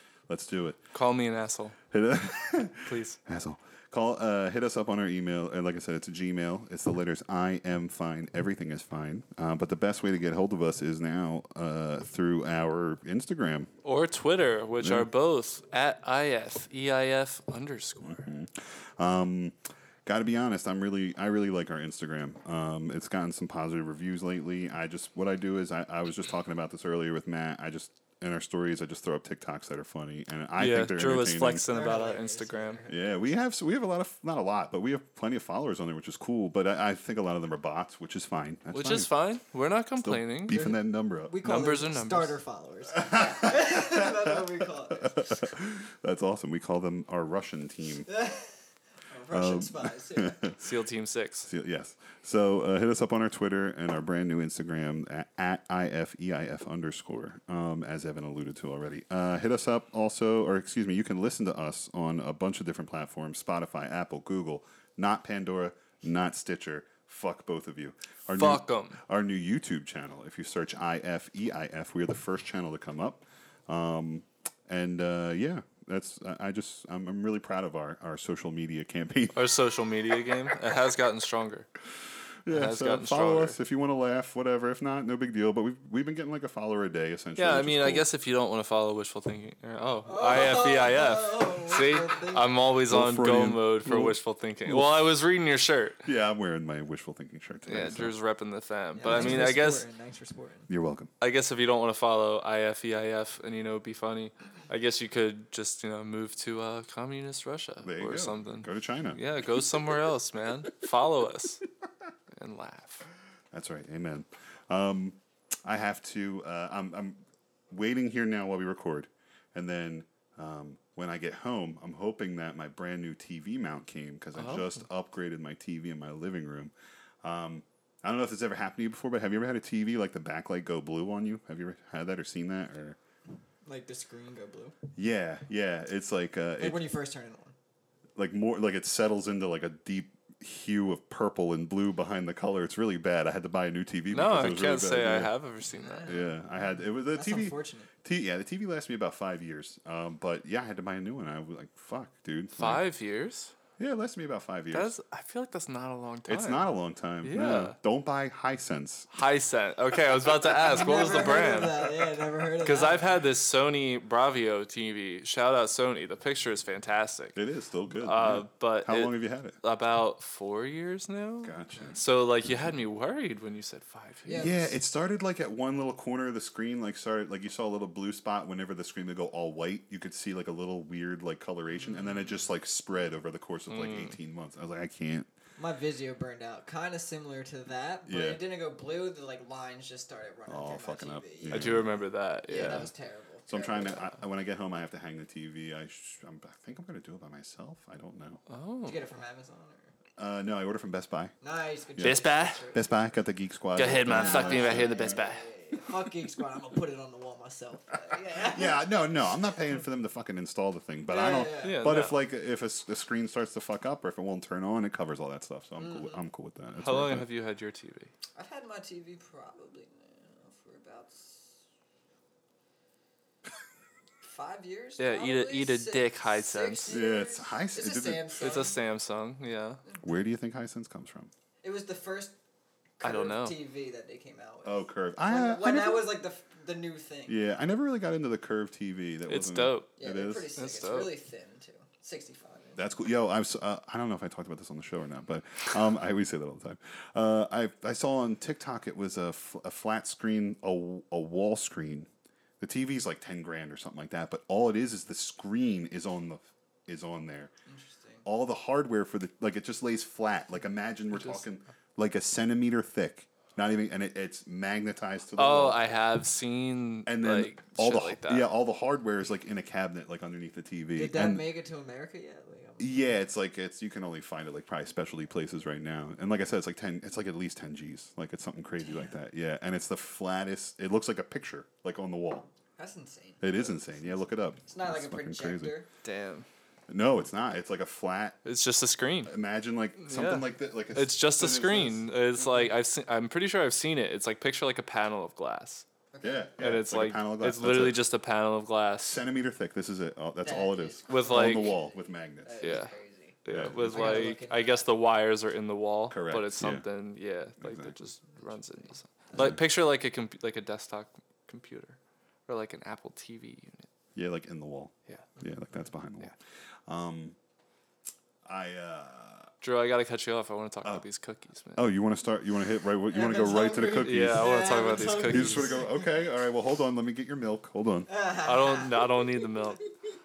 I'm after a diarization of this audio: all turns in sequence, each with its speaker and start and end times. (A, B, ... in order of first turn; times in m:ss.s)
0:00.3-0:00.8 A
0:00.9-0:01.8 B
0:01.9-0:13.7 A
0:02.8-0:03.2 B
0:13.8-0:18.3 B
0:14.8-0:15.1 A
0:18.0-0:31.7 A
0:30.6-0:32.8 B
0:31.7-0:33.0 C
0:32.9-0:39.1 A
0:38.7-0:40.6 B
0:40.0-0:41.3 A
0:40.5-0:45.2 C
0:41.4-0:42.4 B
0:43.0-0:48.1 A
0:48.1-0:50.4 C
0:49.3-0:50.6 A
0:50.6-0:51.5 B
0:51.4-1:19.5 A
1:08.4-1:09.0 B
1:19.3-1:21.7 B
1:22.4-1:28.1 A
1:22.5-1:23.6 B
1:27.4-1:36.0 B
1:30.1-1:32.6 C
1:32.9-1:35.1 A
1:36.0-1:38.2 A
1:37.7-1:39.8 B
1:39.0-1:40.7 C
1:39.0-1:39.6 A
1:40.7-1:41.1 A
1:41.2-1:51.6 B
1:47.8-1:49.9 A
1:52.4-1:53.1 B
1:53.5-2:13.0 A
2:04.4-2:04.7 B
2:13.6-2:14.7 C
2:15.0-2:16.9 A
2:16.6-2:17.5 C
2:18.2-2:25.3 A
2:24.1-2:26.2 B
2:25.7-2:26.3 C
2:26.1-2:32.8 A
2:27.1-2:27.9 C
2:32.6-2:33.5 B
2:33.8-2:34.9 A
2:34.7-2:36.7 B
2:36.3-2:39.1 A
2:37.2-2:37.8 B
2:39.1-2:42.0 B
2:40.6-2:43.0 C
2:42.6-2:47.4 B
2:47.3-2:49.6 A
2:48.0-2:54.6 B
2:51.4-2:52.0 A
2:54.2-2:54.7 C
2:54.3-3:05.3 A
3:03.7-3:04.2 B
3:05.6-3:11.8 C
3:08.1-3:08.4 A
3:10.5-3:12.0 A
3:11.5-3:12.9 B
3:12.5-3:14.1 C
3:12.5-3:12.9 A
3:13.5-3:18.4 A
3:18.5-3:19.0 B
3:18.8-3:19.9 C
3:20.2-3:21.3 A
3:21.4-3:22.9 C
3:21.9-3:25.2 A
3:22.0-3:22.6 B
3:23.8-3:25.4 B
3:23.9-3:28.8 C
3:28.4-3:37.3 A
3:31.1-3:31.9 C
3:31.6-3:32.2 B
3:35.8-3:36.2 C
3:36.8-3:38.1 B
3:38.4-3:41.5 C
3:44.2-3:48.8 C
3:45.0-3:47.0 B
3:46.9-3:48.6 A
3:48.4-3:49.8 B
3:50.0-3:51.3 A
3:51.6-3:52.3 C
3:53.0-3:57.4 C
3:53.0-3:53.6 B
3:54.6-3:56.1 A
3:57.3-4:00.5 A
3:59.3-3:59.9 B
4:00.0-4:02.8 C
4:00.6-4:01.2 B
4:02.8-4:12.1 A
4:12.6-4:17.5 A
4:17.7-4:18.2 C
4:18.2-4:25.8 A
4:21.1-4:21.4 B
4:25.4-4:28.5 B
4:27.0-4:31.5 A
4:31.0-4:33.1 C
4:32.8-4:42.5 A
4:38.8-4:39.1 C
4:42.7-4:45.9 C
4:43.4-4:45.8 A
4:46.0-4:46.4 B
4:46.9-4:48.4 A
4:48.4-4:49.3 B
4:49.2-4:52.1 A
4:50.0-4:55.8 B
4:56.1-4:56.5 C
4:56.2-4:58.0 A
4:56.6-4:59.2 B
4:59.0-5:02.8 A
5:00.4-5:04.9 C
5:01.1-5:01.8 B
5:02.6-5:02.9 B
5:03.4-5:12.0 B
5:03.5-5:04.4 A
5:06.1-5:06.8 A
5:07.6-5:07.9 A
5:08.3-5:09.4 C
5:12.5-5:13.9 B
5:14.2-5:16.3 A
5:16.9-5:17.4 A
5:18.4-5:19.5 A
5:19.6-5:21.9 B
5:21.8-5:28.1 A
5:23.1-5:26.0 C
5:24.0-5:25.8 B
5:28.1-5:29.0 C
5:28.4-5:29.8 B